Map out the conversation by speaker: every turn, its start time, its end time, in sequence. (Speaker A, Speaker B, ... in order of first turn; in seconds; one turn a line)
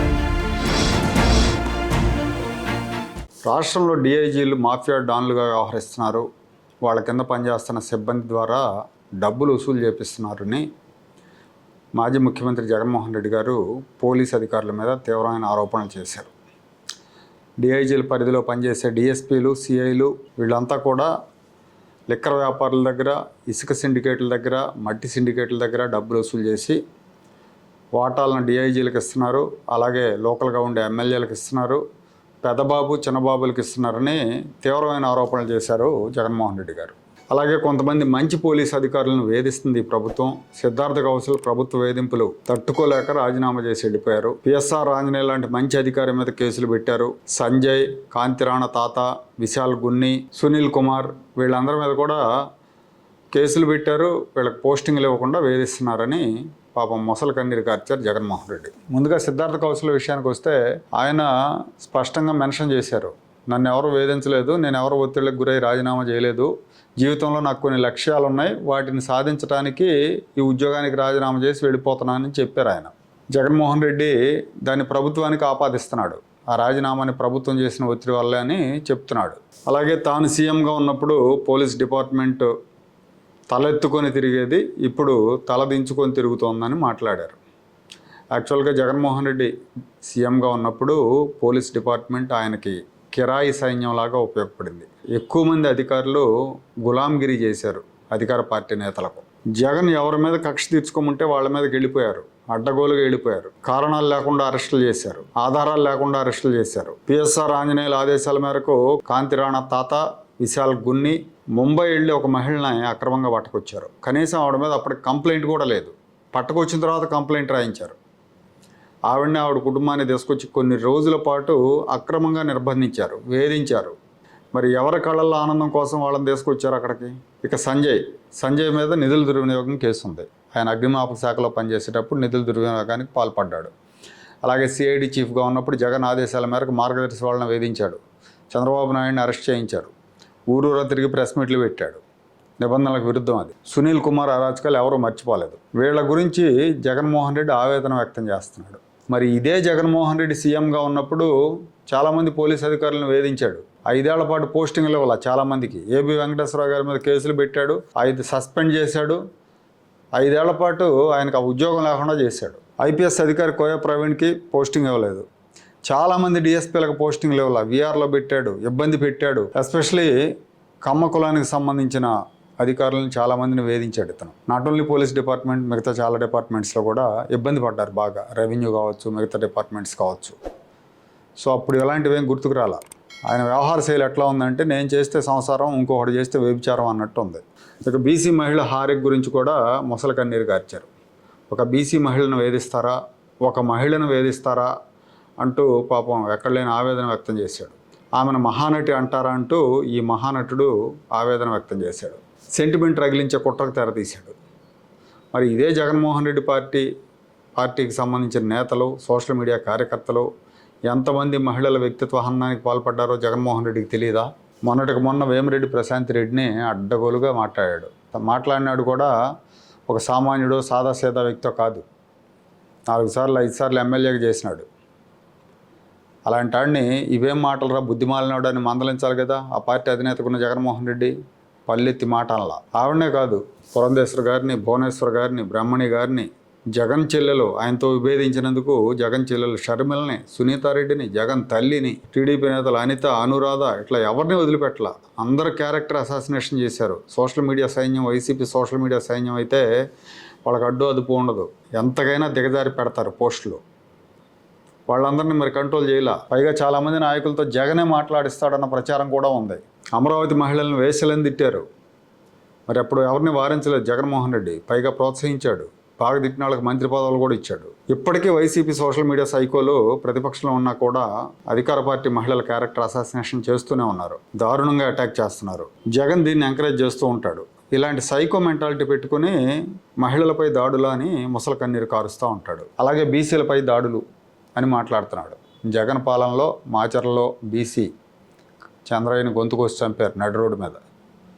Speaker A: 3.5-6.3
Speaker A: 6.8-8.7
Speaker A: 9.2-10.7
Speaker A: 11.9-16.3
Speaker A: 17.6-21.1
Speaker A: 22.1-26.8
Speaker A: 28.0-31.8
Speaker A: 32.4-52.2
Speaker A: 53.3-82.5
Speaker A: 83.5-87.4
Speaker A: 88.3-89.5
Speaker A: 90.0-96.3
Speaker A: 96.8-118.0
Speaker A: 119.1-124.0
Speaker A: 124.5-133.7
Speaker A: 134.4-139.9
Speaker A: 140.5-142.0
Speaker A: 142.6-151.3
Speaker A: 151.8-159.2
Speaker A: 160.2-165.3
Speaker A: 165.9-170.2
Speaker A: 170.8-180.3
Speaker A: 181.4-190.9
Speaker A: 191.5-194.7
Speaker A: 195.4-204.4
Speaker A: 205.3-206.9
Speaker A: 207.6-210.3
Speaker A: 210.9-219.1
Speaker A: 219.9-221.8
Speaker A: 222.9-224.7
Speaker A: 226.3-231.2
Speaker A: 231.7-249.7
Speaker A: 250.4-253.6
Speaker A: 254.9-261.6
Speaker A: 262.7-279.4
Speaker A: 280.0-284.0
Speaker A: 284.6-287.9
Speaker A: 288.9-290.8